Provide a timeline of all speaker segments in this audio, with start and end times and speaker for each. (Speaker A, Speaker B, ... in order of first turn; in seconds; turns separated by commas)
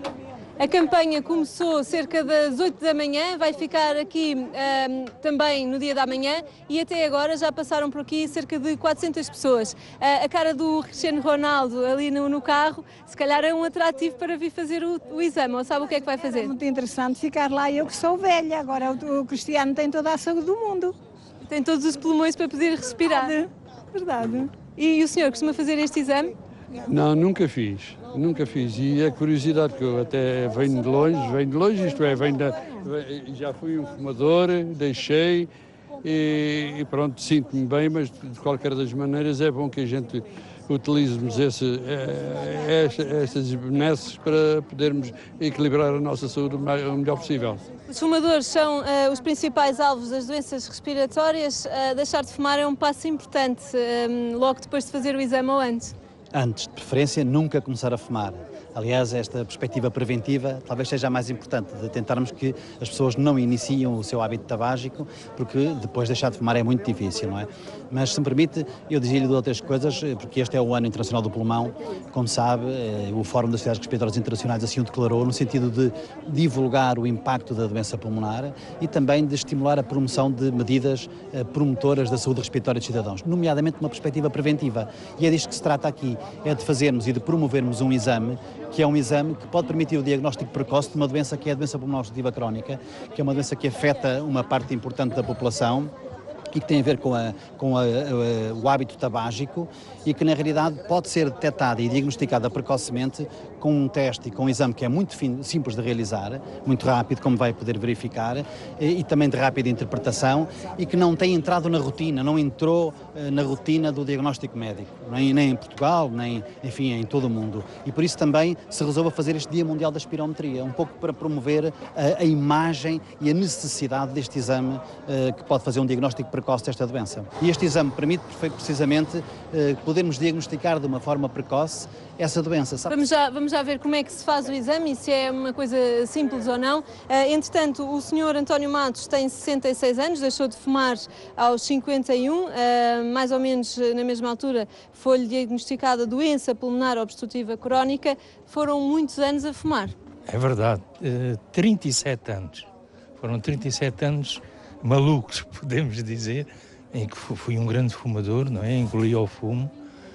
Speaker A: 0.6-16.5, Speaker B: 16.4-20.9, Speaker A: 21.4-23.4, Speaker B: 23.9-24.5, Speaker A: 24.6-26.3, Speaker C: 26.9-35.5, Speaker C: 36.0-47.6, Speaker A: 47.9-55.9, Speaker D: 56.3-95.9, Speaker D: 96.5-133.0, Speaker A: 132.9-149.9, Speaker E: 150.2-152.7, Speaker E: 153.2-159.7